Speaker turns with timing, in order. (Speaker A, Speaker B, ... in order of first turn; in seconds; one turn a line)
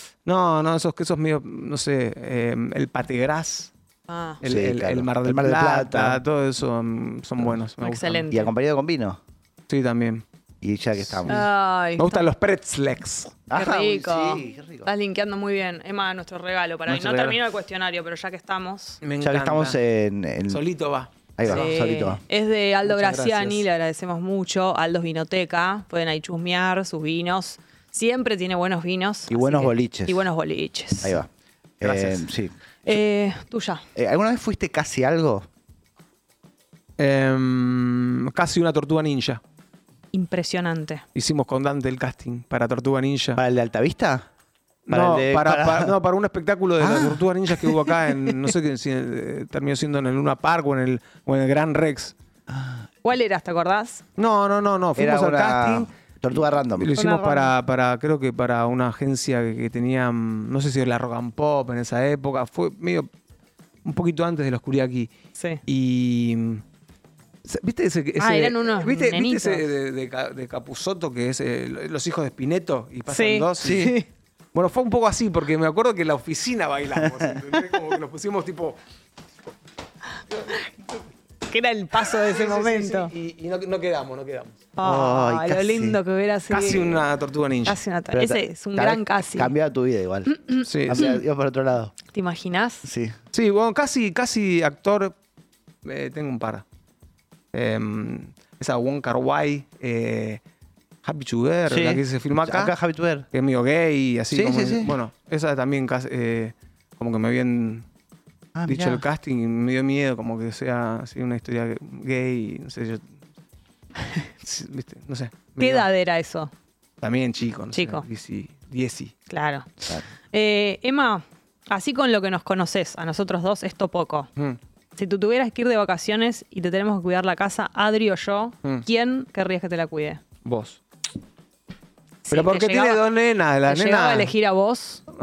Speaker A: 0.2-3.7
Speaker B: 4.1-4.4
Speaker A: 4.4-8.3
Speaker C: 4.4-6.2
Speaker B: 7.8-8.5
Speaker C: 8.3-9.2
Speaker A: 9.7-10.2
Speaker C: 10.6-11.4
Speaker A: 11.1-13.4
Speaker B: 11.3-12.3
Speaker C: 13.5-14.9
Speaker B: 13.5-19.0
Speaker C: 16.9-17.4
Speaker A: 19.0-19.8
Speaker C: 19.2-20.6
Speaker A: 20.5-21.7
Speaker C: 21.4-22.2
Speaker B: 21.5-31.2
Speaker A: 22.8-23.7
Speaker C: 29.3-30.2
Speaker C: 31.0-31.3
Speaker C: 31.8-32.5
Speaker A: 31.8-32.3
Speaker B: 32.9-33.9
Speaker C: 34.0-35.5
Speaker A: 37.0-39.4
Speaker B: 40.1-41.0
Speaker A: 41.1-43.4
Speaker C: 43.4-44.3
Speaker A: 44.9-52.1
Speaker C: 44.9-45.9
Speaker C: 46.8-47.8
Speaker C: 52.5-52.9
Speaker B: 53.0-54.0
Speaker A: 54.2-55.9
Speaker C: 55.0-57.0
Speaker A: 56.8-63.1
Speaker B: 57.0-57.5
Speaker A: 63.9-65.1
Speaker B: 65.3-65.6
Speaker A: 65.7-66.6
Speaker A: 67.5-73.9
Speaker B: 68.2-69.7
Speaker B: 73.1-74.1
Speaker C: 73.6-74.0
Speaker A: 74.5-78.8
Speaker C: 77.0-77.3
Speaker A: 80.3-80.6
Speaker B: 81.5-83.1
Speaker A: 82.0-84.7
Speaker B: 84.8-87.0
Speaker C: 84.8-86.0
Speaker A: 86.5-87.8
Speaker B: 87.7-89.5
Speaker C: 88.1-91.9
Speaker B: 90.3-91.1
Speaker A: 90.6-91.2
Speaker B: 92.1-92.9
Speaker C: 92.8-93.2
Speaker A: 93.3-95.1
Speaker A: 95.8-96.6
Speaker A: 97.5-100.4
Speaker A: 101.0-102.7
Speaker C: 101.7-103.3
Speaker A: 103.3-107.8
Speaker C: 104.3-105.0
Speaker C: 108.5-109.0
Speaker A: 108.7-113.0
Speaker A: 114.4-115.9
Speaker B: 115.6-116.5
Speaker A: 117.0-119.2
Speaker B: 117.7-118.0
Speaker B: 119.3-124.3
Speaker B: 125.0-130.2
Speaker A: 130.4-130.8
Speaker B: 132.3-133.0
Speaker A: 132.3-134.3
Speaker B: 133.7-135.0